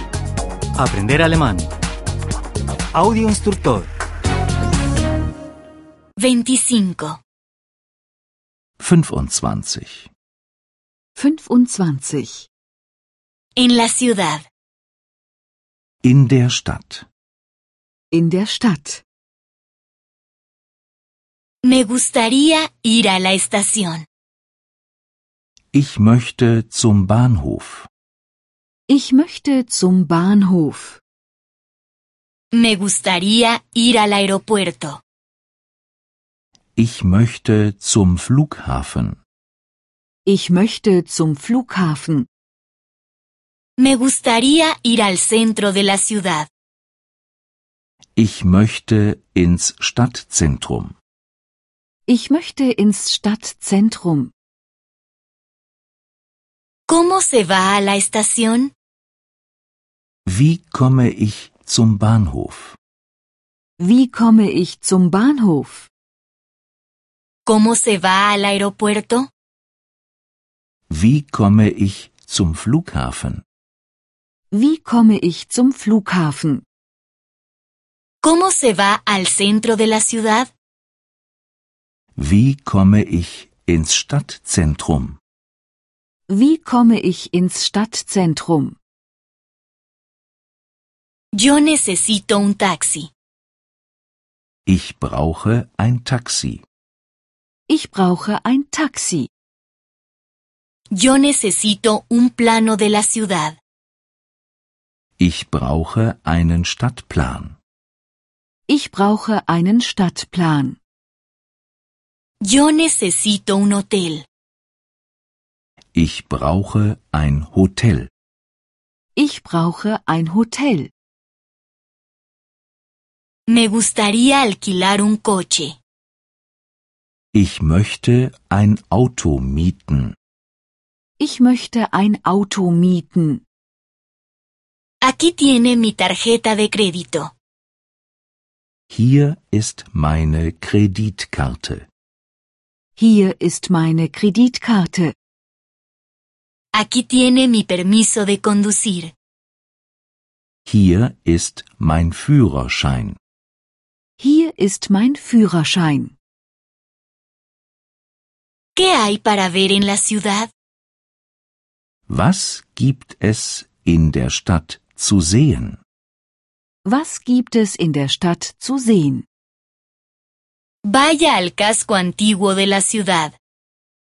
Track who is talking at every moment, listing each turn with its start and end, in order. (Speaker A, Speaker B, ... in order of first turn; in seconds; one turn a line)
Speaker A: 0.8-1.7
Speaker A: 2.9-3.9
Speaker B: 6.2-7.2
Speaker C: 8.8-10.1
Speaker D: 11.2-12.5
Speaker B: 13.6-14.4
Speaker C: 16.0-17.1
Speaker D: 18.1-19.0
Speaker B: 21.6-24.1
Speaker C: 25.7-27.9
Speaker D: 28.9-31.0
Speaker B: 32.5-35.0
Speaker C: 36.8-39.2
Speaker D: 40.2-42.3
Speaker B: 43.8-46.5
Speaker C: 48.1-51.0
Speaker D: 52.1-54.3
Speaker B: 56.9-58.7
Speaker C: 60.2-62.8
Speaker D: 63.8-65.9
Speaker B: 67.5-69.3
Speaker C: 70.9-73.4
Speaker D: 74.5-76.6
Speaker B: 78.2-80.5
Speaker C: 82.2-85.2
Speaker D: 86.3-88.8
Speaker B: 91.3-93.1
Speaker C: 94.7-96.6
Speaker D: 97.7-99.3
Speaker B: 100.9-103.6
Speaker C: 105.2-107.6
Speaker D: 108.7-110.8
Speaker B: 112.4-114.2
Speaker C: 115.9-118.1
Speaker D: 119.2-120.9
Speaker B: 123.5-125.8
Speaker C: 127.3-130.1
Speaker D: 131.2-133.4
Speaker B: 135.0-137.3
Speaker C: 138.9-141.8
Speaker D: 142.9-145.1
Speaker B: 146.7-149.1
Speaker C: 150.7-153.2
Speaker D: 154.2-156.1
Speaker B: 158.8-160.5
Speaker C: 162.1-165.8
Speaker D: 166.8-169.2
Speaker B: 170.9-173.3